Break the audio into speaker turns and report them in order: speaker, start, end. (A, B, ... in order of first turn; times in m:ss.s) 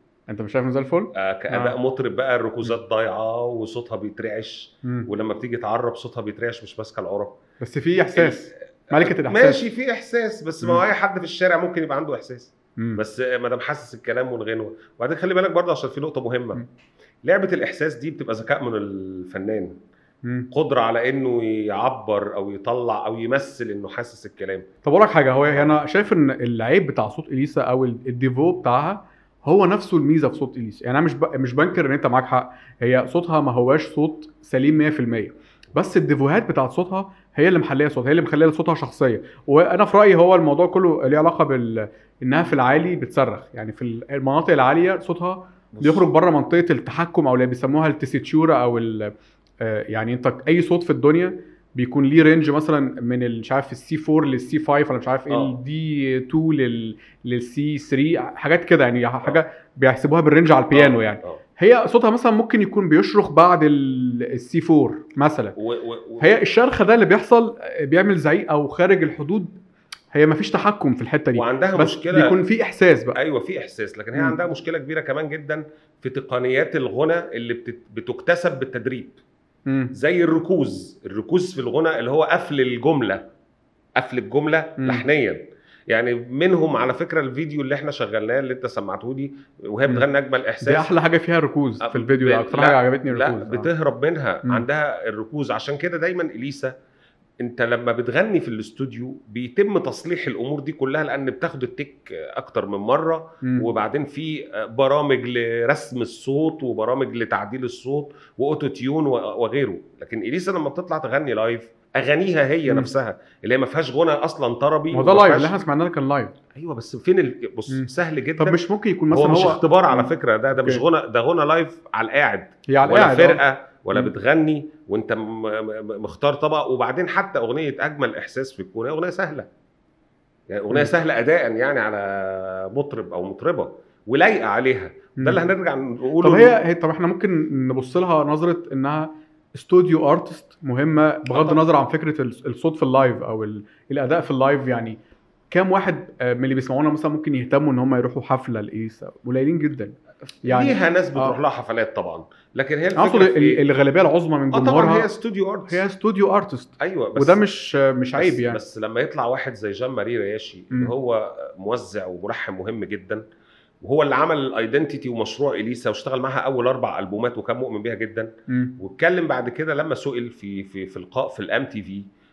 0:00.3-0:01.8 A
0:01.1-0:07.4 B
0:04.8-0:05.1 A
0:07.6-0:09.6 A
0:08.1-0:16.6 B
0:17.2-0:19.8 B
0:20.2-0:20.5 A
0:20.5-0:24.7 B
0:24.8-1:05.6 A
0:45.7-0:46.0 B
0:55.3-0:55.6 B
1:00.7-1:01.4 B
1:05.6-1:06.4 B
1:06.2-1:09.6 A
1:10.1-1:13.2 A
1:11.4-1:12.4 B
1:13.1-1:19.2 B
1:19.7-1:19.9 A
1:19.9-1:23.3 B
1:24.0-1:30.9 B
1:24.8-1:25.0 A
1:30.6-1:33.7 A
1:31.8-1:36.7 B
1:37.4-1:55.5 B
1:43.4-1:43.7 A
1:54.9-1:56.3 A
1:56.5-2:09.5 B
1:57.7-2:00.8 A
2:02.7-2:03.4 A
2:10.5-2:16.6 B
2:15.2-2:15.4 A
2:16.2-2:25.0 A
2:21.3-2:21.6 B
2:25.5-2:31.4 A
2:30.4-2:33.6 B
2:32.9-2:35.1 A
2:34.5-2:35.8 B
2:35.7-2:38.6 A
2:36.8-2:37.4 B
2:38.2-2:43.2 B
2:43.8-2:52.0 B
2:48.5-2:48.8 A